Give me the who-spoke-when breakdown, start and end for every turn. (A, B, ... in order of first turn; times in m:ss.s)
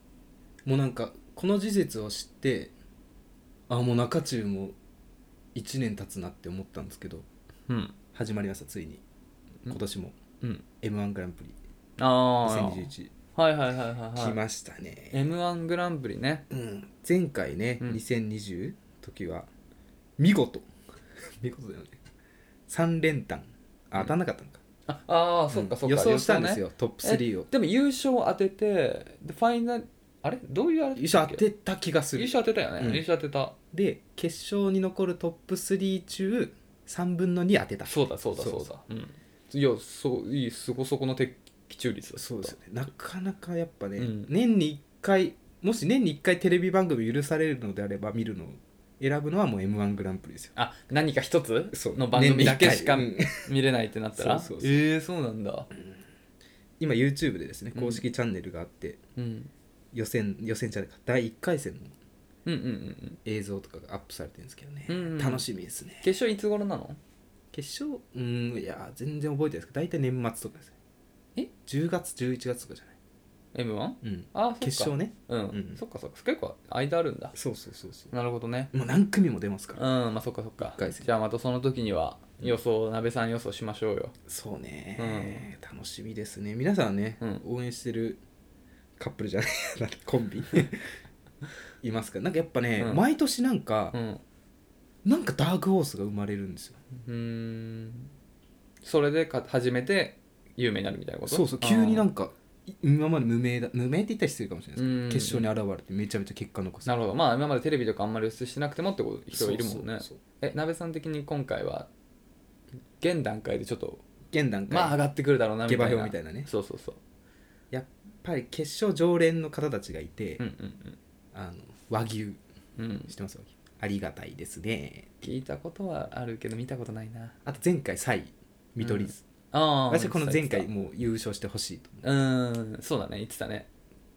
0:00.6-0:02.7 A
0:03.7-0:04.8 A
0:05.5-0:07.3 A
0:07.7-0:08.0 B
0:08.1-0:09.0 A
0:09.7-0:10.2 A
0:10.8-0:11.6 A
0:12.0-0:14.4 B
0:12.4-0:13.1 A
0:14.1-0:15.2 A
0:15.1-0:16.4 B
0:16.5-0:19.5 A
0:20.2-0:20.7 A
0:21.4-0:22.0 A
0:22.7-0:24.6 A
0:24.9-0:31.4 B
0:25.5-0:27.5 A
0:31.0-0:33.0 A
0:32.2-0:33.5 B
0:33.7-0:38.7 A
0:37.9-0:42.5 B
0:42.2-0:50.5 A
0:44.0-0:44.3 B
0:50.6-0:55.7 B
0:51.7-0:53.5 A
0:54.2-0:54.8 A
0:56.8-0:59.0 A
0:57.7-0:58.0 B
0:59.2-0:59.5 B
0:59.9-1:01.9 A
1:02.4-1:03.2 B
1:03.2-1:06.1 A
1:04.9-1:05.4 B
1:06.0-1:07.0 B
1:07.5-1:10.7 A
1:11.6-1:12.9 A
1:13.5-1:17.3 B
1:14.0-1:15.8 A
1:17.3-1:18.1 A
1:18.1-1:18.7 B
1:18.7-1:19.8 A
1:19.8-1:24.1 B
1:20.6-1:21.1 A
1:24.3-1:28.2 A
1:25.0-1:25.5 B
1:29.0-1:30.9 A
1:31.8-1:34.0 A
1:32.8-1:33.0 B
1:33.9-1:34.2 B
1:35.0-1:36.8 A
1:37.0-1:38.1 B
1:38.8-1:42.1 B
1:41.2-1:46.9 A
1:44.8-1:45.5 B
1:46.8-1:51.9 B
1:49.3-1:50.2 A
1:53.0-1:54.0 B
1:54.3-1:55.0 A
1:54.7-1:57.0 B
1:55.6-1:56.5 A
1:57.7-2:00.4 A
2:00.4-2:01.0 B
2:01.3-2:02.4 A
2:02.8-2:03.1 B
2:03.1-2:05.1 A
2:05.2-2:07.4 B
2:07.4-2:09.2 A
2:08.8-2:10.7 B
2:09.9-2:12.0 A
2:12.0-2:13.7 B